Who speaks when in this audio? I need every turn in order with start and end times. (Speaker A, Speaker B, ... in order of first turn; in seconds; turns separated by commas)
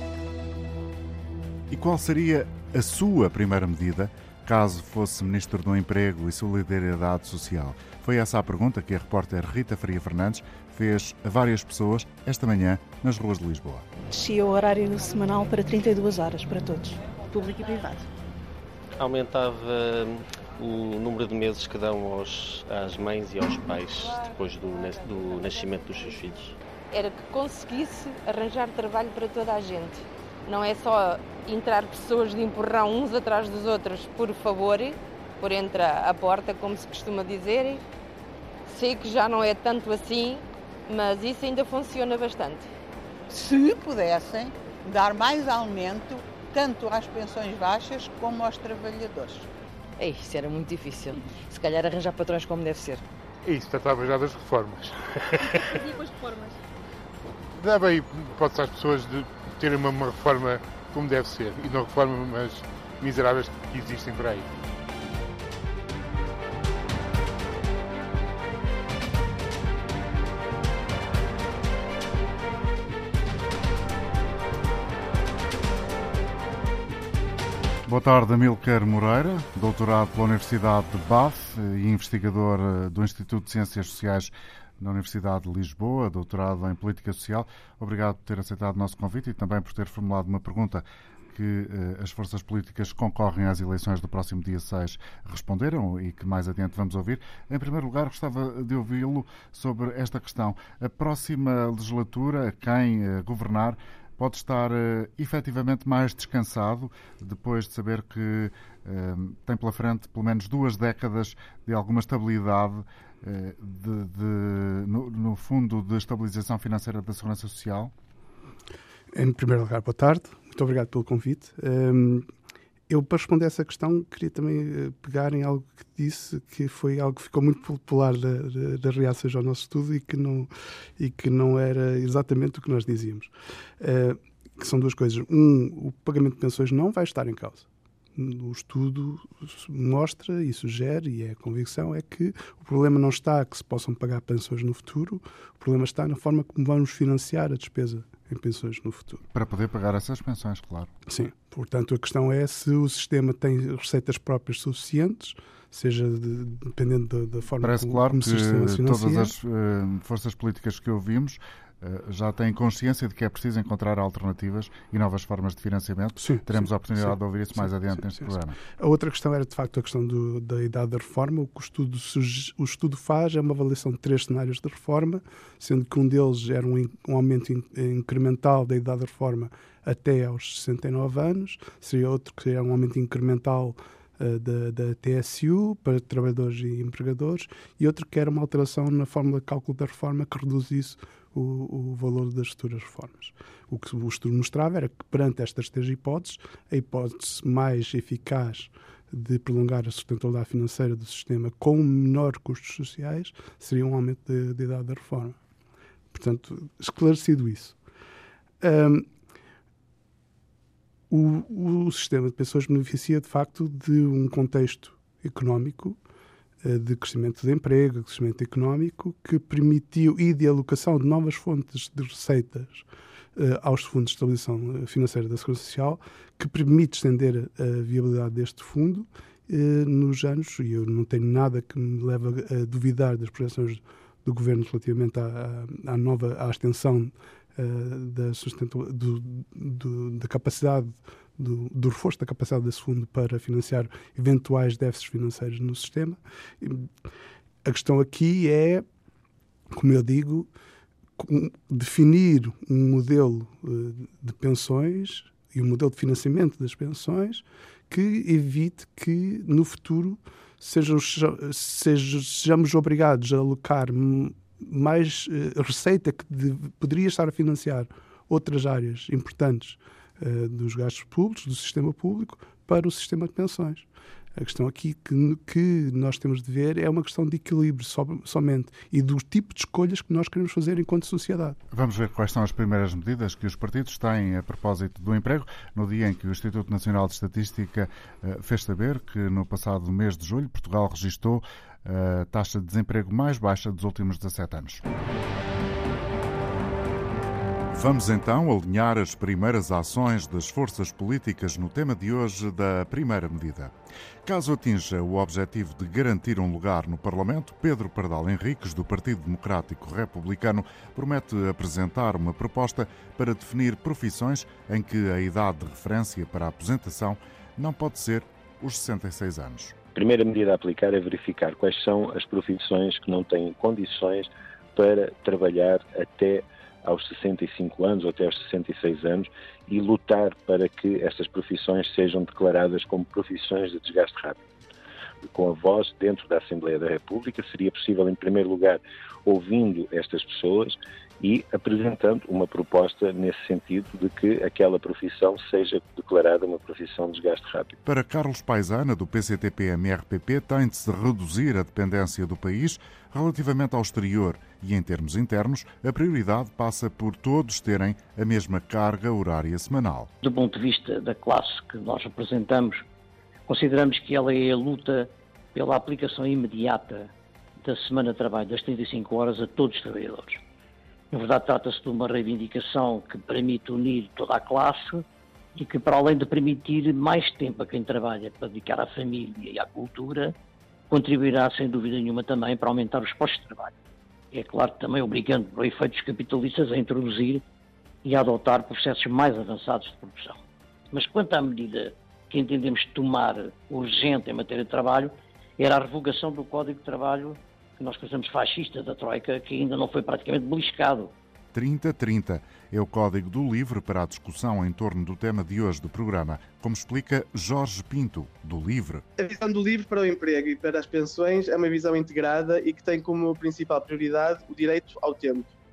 Speaker A: 1.7-13.8, Speaker B: 14.1-18.1, Speaker C: 19.0-26.6, Speaker D: 26.9-37.8, Speaker D: 38.7-42.7, Speaker E: 43.3-49.5, Speaker F: 50.2-50.6, Speaker F: 51.7-52.9, Speaker G: 53.5-54.9, Speaker G: 57.7-58.1, Speaker F: 58.3-59.0, Speaker G: 58.9-64.4, Speaker F: 59.6-60.0, Speaker A: 77.8-117.9, Speaker H: 119.1-122.3, Speaker H: 122.9-149.2, Speaker A: 149.3-150.9, Speaker H: 151.1-159.3, Speaker A: 157.6-168.6, Speaker H: 166.2-205.4, Speaker H: 206.1-207.8, Speaker H: 208.6-209.1, Speaker H: 211.1-216.0, Speaker H: 216.6-222.8, Speaker H: 223.3-246.9, Speaker H: 247.6-248.8, Speaker H: 249.7-250.5, Speaker H: 251.2-281.6, Speaker A: 281.7-294.8, Speaker A: 297.7-319.8, Speaker I: 319.9-334.4, Speaker I: 335.2-347.8, Speaker A: 347.8-360.1, Speaker J: 360.2-362.8, Speaker J: 363.5-367.1, Speaker J: 367.6-370.4, Speaker J: 371.1-375.0, Speaker J: 375.5-380.3, Speaker J: 380.9-383.7, Speaker J: 384.3-387.4, Speaker J: 388.0-390.4, Speaker J: 390.9-401.1, Speaker A: 401.5-409.0, Speaker K: 409.2-415.5